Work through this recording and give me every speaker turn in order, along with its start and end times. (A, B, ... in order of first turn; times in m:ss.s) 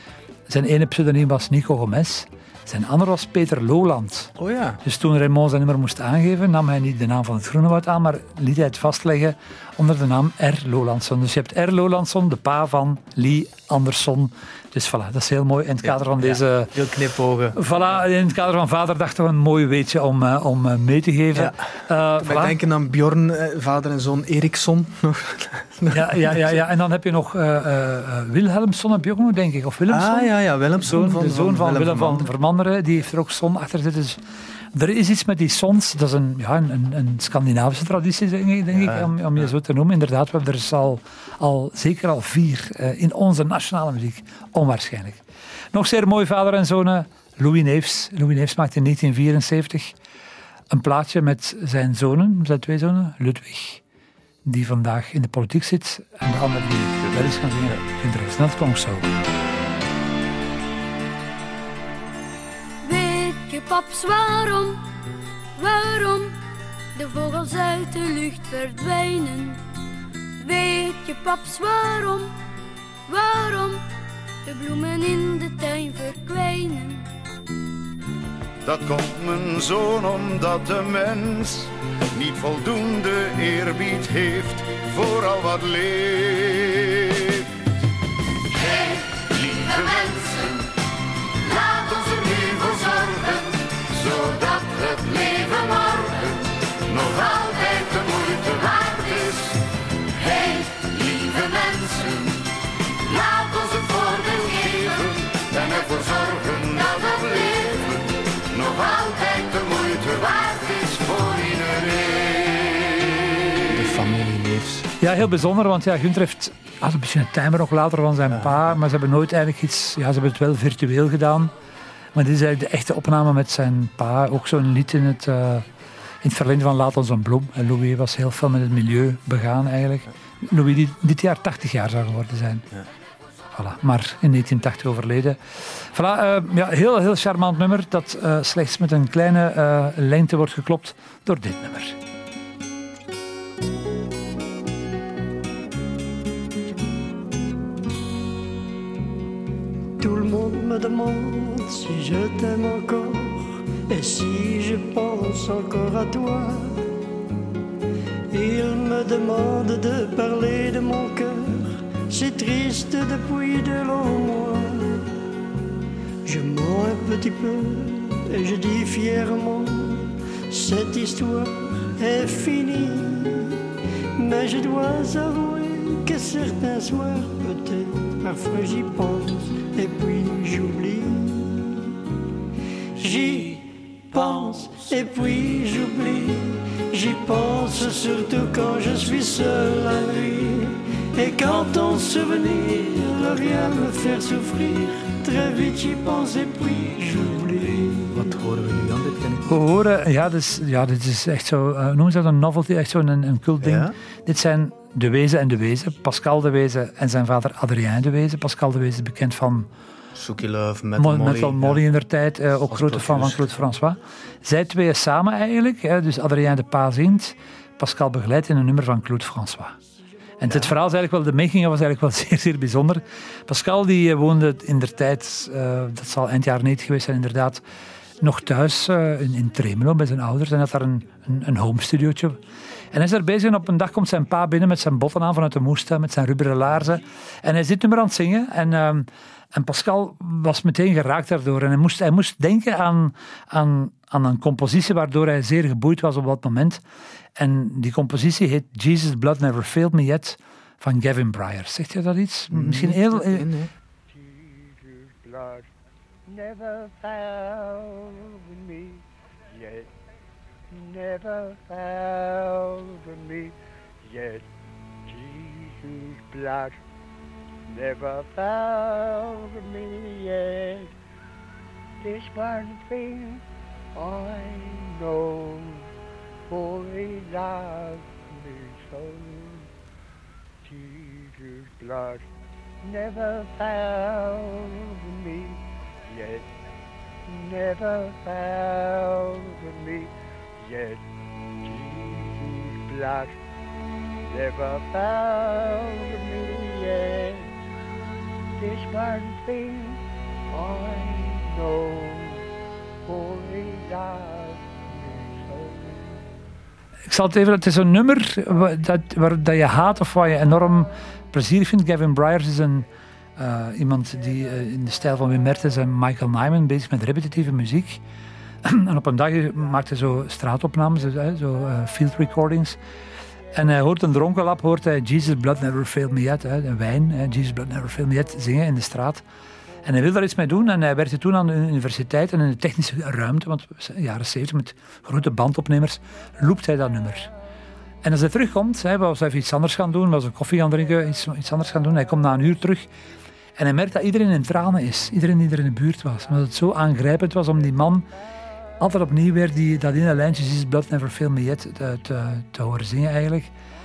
0:00.5-0:04.3 A
0:04.4-0:04.8 B
0:04.8-0:16.8 A
0:15.8-0:17.6 B
0:17.5-0:22.6 A
0:21.3-0:21.6 B
0:22.2-0:26.6 B
0:25.9-0:34.2 A
0:29.9-0:32.3 B
0:34.7-0:45.2 A
0:45.7-0:50.0 A
0:50.7-0:53.8 A
0:54.4-0:59.1 A
1:02.8-1:04.8 C
1:05.6-1:06.4 C
1:07.0-1:09.6 C
1:10.4-1:12.3 C
1:13.1-1:13.8 C
1:14.4-1:17.1 C
1:18.6-1:27.5 D
1:29.6-1:30.5 D
1:31.9-1:36.2 D
1:37.0-1:39.4 D
1:40.7-1:42.3 D
1:43.5-1:47.8 D
1:48.6-1:52.9 D
1:53.7-1:54.9 B
1:55.0-2:01.5 A
1:58.3-1:58.6 B
2:02.1-2:05.6 A
2:06.2-2:12.6 A
2:13.5-2:22.0 A
2:30.0-2:36.9 E
2:38.3-2:45.2 E
2:46.2-3:02.0 E
3:03.0-3:18.3 E
3:18.1-3:19.5 B
3:19.5-3:29.7 A
3:23.6-3:23.9 B
3:30.1-3:31.8 B
3:31.0-3:39.8 A
3:32.7-3:33.5 B
3:40.4-3:47.6 A
3:40.4-3:40.7 B
3:48.2-3:52.4 A
3:52.9-4:06.8 A
4:07.4-4:13.5 A
4:12.5-4:13.7 B
4:16.4-4:19.0 F
4:20.9-4:23.5 F
4:25.2-4:26.8 F
4:27.8-4:30.9 F
4:32.0-4:33.4 F
4:34.0-4:35.9 F
4:36.5-4:39.6 F
4:40.8-4:42.2 F
4:42.8-4:46.4 F
4:47.3-4:50.1 F
4:50.6-4:51.0 F
4:51.7-4:53.3 F
4:54.3-4:57.5 F
4:58.6-5:00.0 F
5:00.6-5:02.4 F
5:03.2-5:05.7 F
5:07.1-5:18.0 A
5:18.6-5:22.8 A
5:23.5-5:29.2 A
5:29.8-5:37.3 A
5:38.0-5:42.9 A
5:43.6-5:48.1 A
5:48.8-5:53.5 A